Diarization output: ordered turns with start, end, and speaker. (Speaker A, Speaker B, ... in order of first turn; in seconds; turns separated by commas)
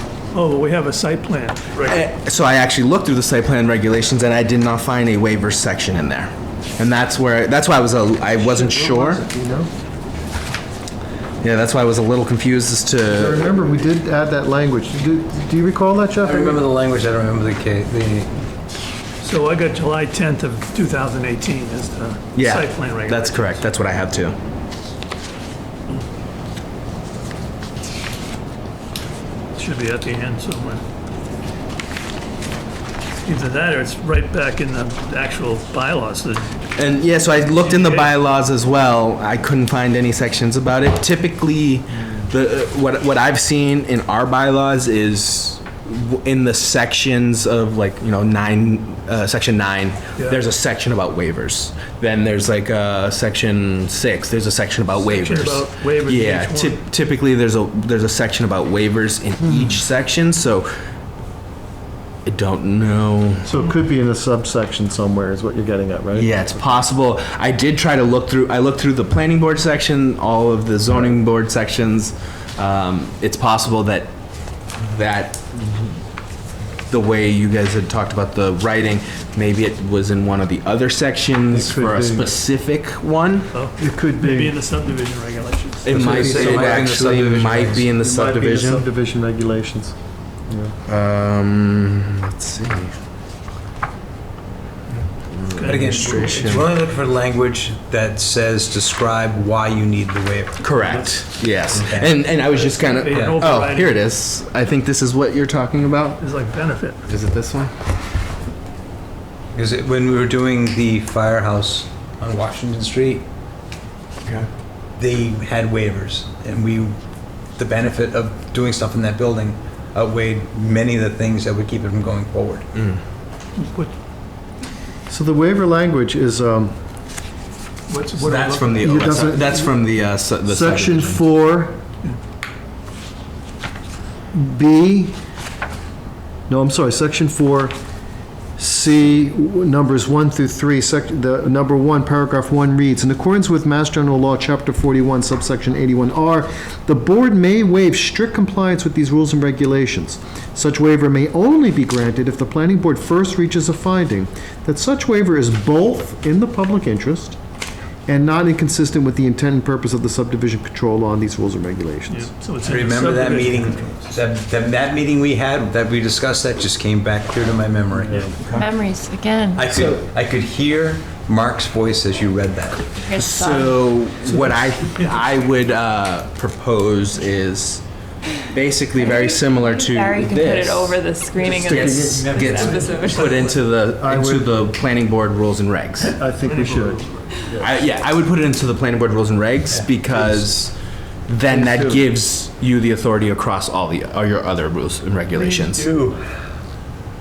Speaker A: 0.3-2.0, Speaker B: 1.9-9.2, Speaker C: 8.3-9.7, Speaker B: 11.4-13.5, Speaker C: 13.1-16.6, Speaker D: 16.2-18.3, Speaker A: 19.2-23.6, Speaker B: 22.4-24.4, Speaker A: 29.6-30.8, Speaker A: 33.2-36.5, Speaker B: 36.8-60.7, Speaker A: 37.5-38.2, Speaker A: 50.2-50.4, Speaker A: 55.0-56.8, Speaker B: 62.2-63.5, Speaker C: 63.5-66.5, Speaker B: 66.1-74.1, Speaker B: 74.8-76.0, Speaker B: 76.9-83.5, Speaker C: 81.5-82.4, Speaker A: 83.5-86.6, Speaker C: 83.8-84.5, Speaker B: 85.8-88.8, Speaker D: 85.9-87.9, Speaker C: 86.0-86.7, Speaker C: 88.0-90.0, Speaker C: 90.5-90.8, Speaker B: 90.9-92.9, Speaker B: 95.3-96.7, Speaker A: 95.5-96.7, Speaker D: 95.7-101.1, Speaker B: 100.6-106.2, Speaker D: 101.7-102.2, Speaker A: 102.3-104.1, Speaker D: 103.1-103.5, Speaker A: 106.2-107.0, Speaker B: 107.1-107.7, Speaker D: 109.5-113.3, Speaker D: 115.0-117.0, Speaker D: 117.6-122.7, Speaker A: 123.6-123.9, Speaker C: 125.1-126.8, Speaker A: 127.9-129.3, Speaker B: 128.2-131.2, Speaker C: 128.7-129.8, Speaker C: 130.4-131.8, Speaker C: 134.3-135.2, Speaker C: 136.5-137.8, Speaker C: 138.6-157.4, Speaker C: 158.1-162.3, Speaker A: 162.1-164.2, Speaker D: 162.7-168.4, Speaker C: 168.0-168.3, Speaker B: 168.4-168.7, Speaker E: 168.6-169.7, Speaker D: 169.6-172.9, Speaker E: 173.0-173.9, Speaker B: 173.2-177.8, Speaker A: 174.3-175.3, Speaker B: 178.5-181.0, Speaker E: 178.9-183.6, Speaker D: 181.4-183.2, Speaker C: 181.4-182.9, Speaker B: 181.7-186.2, Speaker C: 184.0-184.6, Speaker C: 186.1-187.0, Speaker A: 186.4-187.4, Speaker B: 187.6-190.8, Speaker C: 190.1-190.4, Speaker B: 191.3-195.9, Speaker C: 191.5-192.1, Speaker D: 195.3-196.2